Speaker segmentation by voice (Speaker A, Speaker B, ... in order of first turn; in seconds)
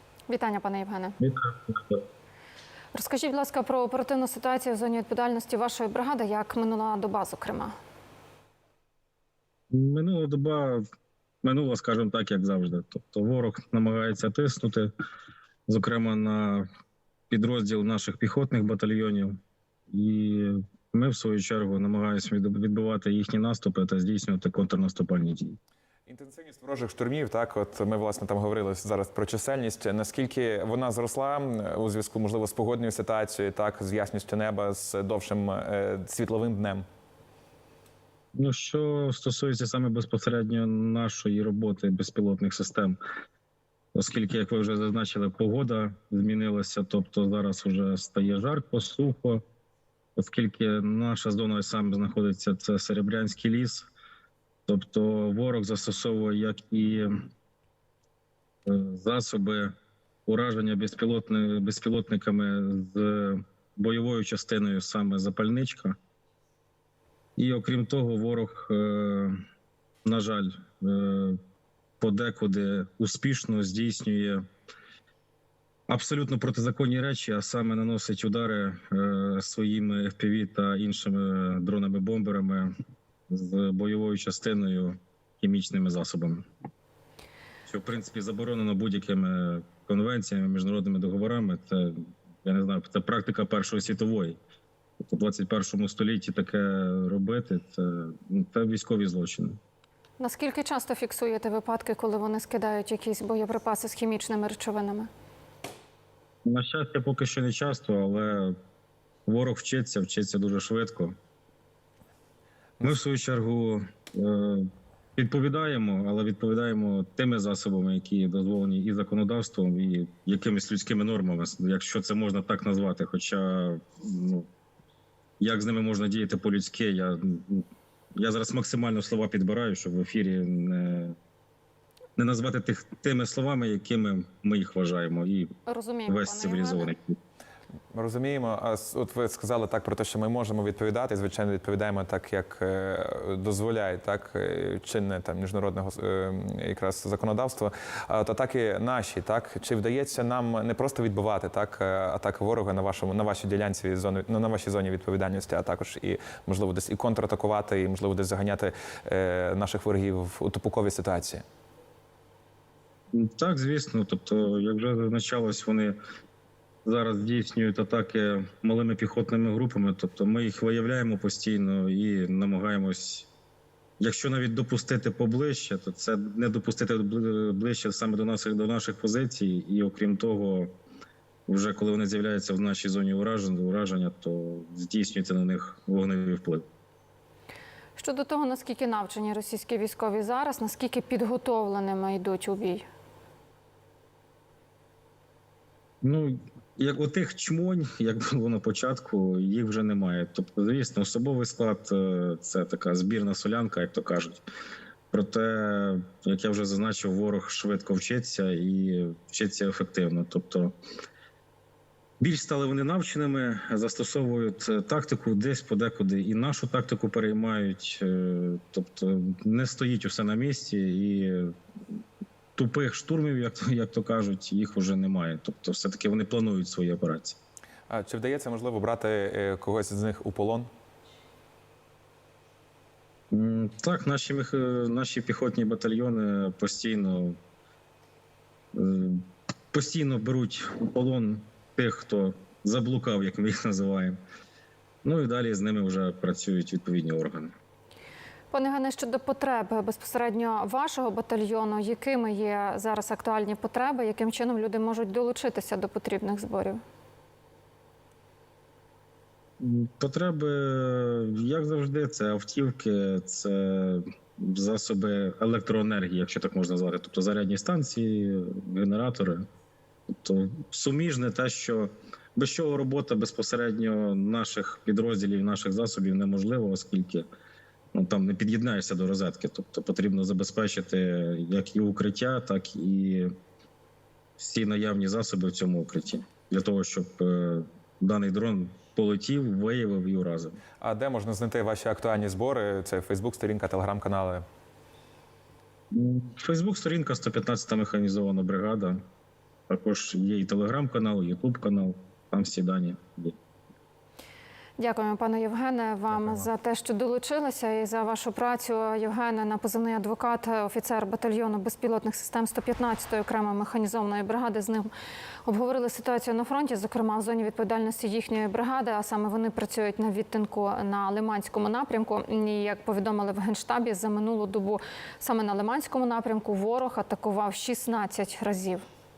Speaker A: 0.3-1.1, 2.9-7.7, 100.2-105.1, 135.7-136.9, 188.0-192.8, 248.5-256.8, 304.8-314.9, 315.4-328.8
Speaker B: 1.2-2.0, 9.7-10.8, 11.4-14.9, 15.7-16.6, 17.3-19.4, 19.9-25.6, 38.4-43.0, 43.9-49.4, 50.1-53.9, 54.7-57.1, 58.6-59.7, 60.3-66.0, 67.4-69.4, 70.0-71.4, 72.0-74.4, 75.9-82.7, 83.3-86.5, 87.7-94.4, 95.0-99.6, 106.4-108.5, 109.2-111.1, 112.8-124.5, 125.4-127.6, 128.2-131.2, 132.2-135.5, 136.1-137.2, 163.1-165.9, 166.8-173.3, 174.0-180.7, 181.5-186.6, 196.0-204.4, 205.1-210.7, 212.2-221.9, 222.6-227.4, 233.3-237.4, 238.7-244.2, 245.0-247.5, 259.6-269.4, 270.1-277.3, 277.9-283.3, 284.4-290.6, 295.9-299.0, 299.7-303.4
Speaker C: 26.1-36.8, 137.9-161.4, 227.9-230.7, 290.8-294.4